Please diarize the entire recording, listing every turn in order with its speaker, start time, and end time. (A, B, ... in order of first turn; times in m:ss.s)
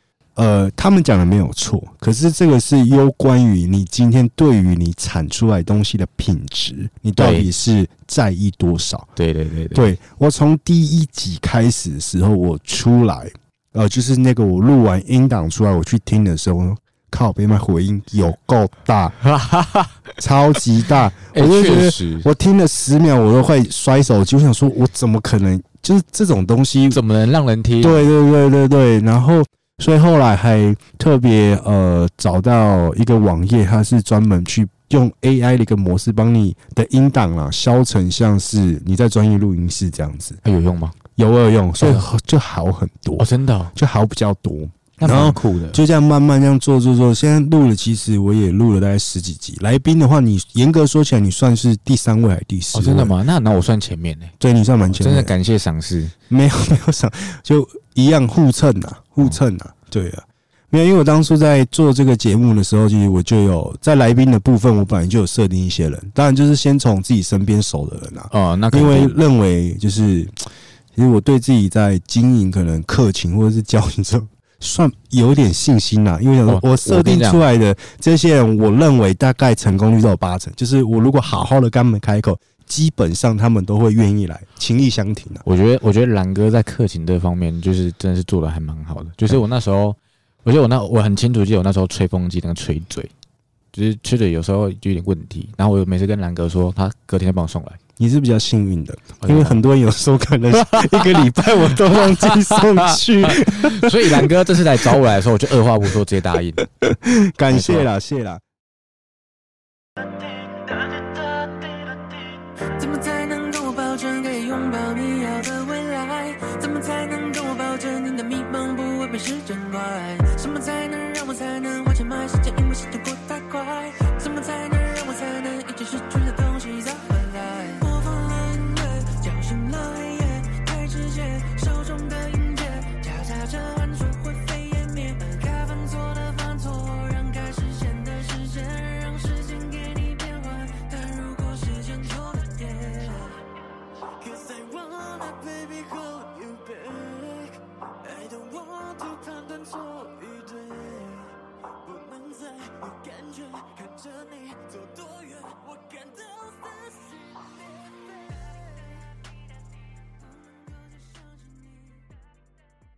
0:00.4-0:09.1 A
0:07.2-0:07.5 B
0:09.2-0:10.0 B
0:09.7-0:19.2 A
0:19.2-0:20.0 B
0:20.2-0:27.0 A
0:21.3-0:22.3 B
0:26.9-0:28.1 B
0:27.8-0:40.4 A
0:40.4-0:41.0 B
0:41.2-0:53.1 A
0:41.8-0:42.1 B
0:43.2-0:43.7 B
0:45.0-0:45.8 B
0:52.7-0:54.3 B
0:54.4-0:55.3 A
0:54.9-0:56.1 B
0:56.3-1:25.4 A
1:08.3-1:09.2 B
1:16.5-1:17.4 B
1:25.4-1:33.1 B
1:33.7-1:37.8 B
1:38.0-1:44.3 A
1:39.2-1:39.6 B
1:40.5-1:46.7 B
1:46.7-1:48.4 A
1:47.5-1:47.9 B
1:50.4-1:51.7 C
1:52.8-2:23.4 C
2:24.2-2:38.8 C
2:40.2-2:42.1 C